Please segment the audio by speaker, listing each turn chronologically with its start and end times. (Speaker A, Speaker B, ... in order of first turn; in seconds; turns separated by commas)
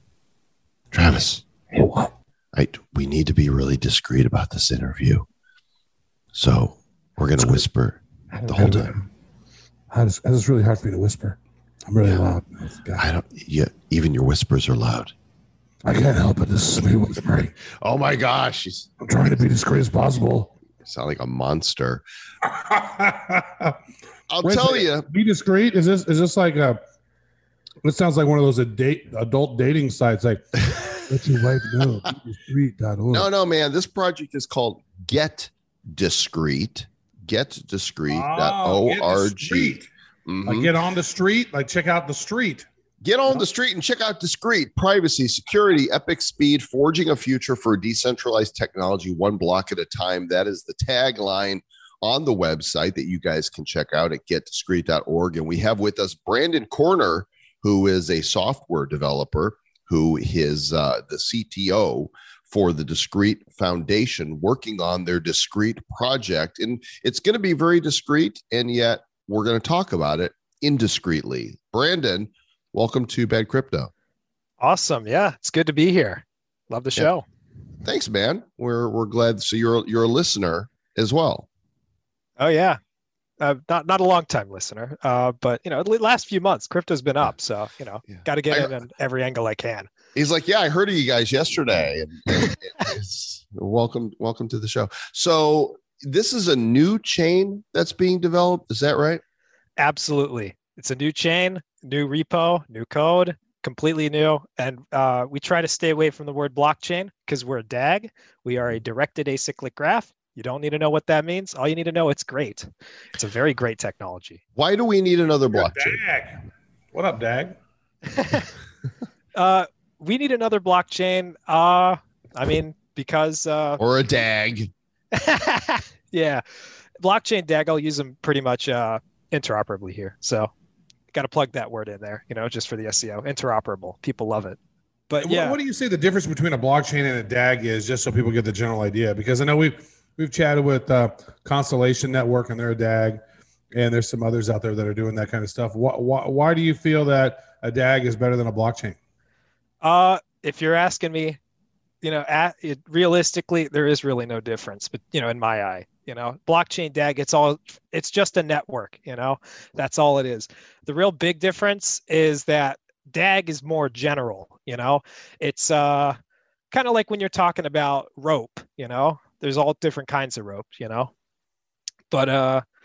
Speaker A: 0.9-1.4, Speaker B: 1.7-2.1, Speaker A: 2.5-5.2, Speaker A: 6.3-8.9, Speaker B: 7.4-7.6, Speaker B: 8.3-9.0, Speaker B: 9.9-13.0, Speaker A: 13.0-15.1, Speaker B: 15.8-17.5, Speaker A: 17.6-18.9, Speaker B: 19.0-20.5, Speaker A: 20.8-22.0, Speaker B: 22.4-23.8, Speaker A: 24.3-25.1, Speaker B: 24.4-26.8, Speaker B: 27.8-33.3, Speaker A: 30.7-31.0, Speaker A: 33.1-40.7, Speaker B: 38.1-39.9, Speaker B: 40.5-42.7, Speaker A: 43.0-73.9, Speaker C: 74.6-77.2, Speaker A: 77.8-81.5, Speaker C: 82.4-82.8, Speaker C: 83.4-89.9, Speaker A: 88.1-88.7, Speaker A: 90.1-99.2, Speaker C: 99.8-114.4, Speaker A: 114.5-116.0, Speaker B: 115.5-116.4, Speaker B: 116.9-117.5, Speaker C: 118.1-118.5, Speaker C: 119.4-123.8, Speaker A: 123.8-124.7, Speaker C: 125.1-126.4, Speaker C: 127.0-130.5, Speaker C: 131.1-134.6, Speaker C: 135.1-135.6, Speaker B: 135.2-143.2, Speaker B: 143.7-149.0, Speaker C: 149.8-151.4, Speaker C: 152.0-166.2, Speaker C: 166.7-171.1, Speaker C: 172.1-172.6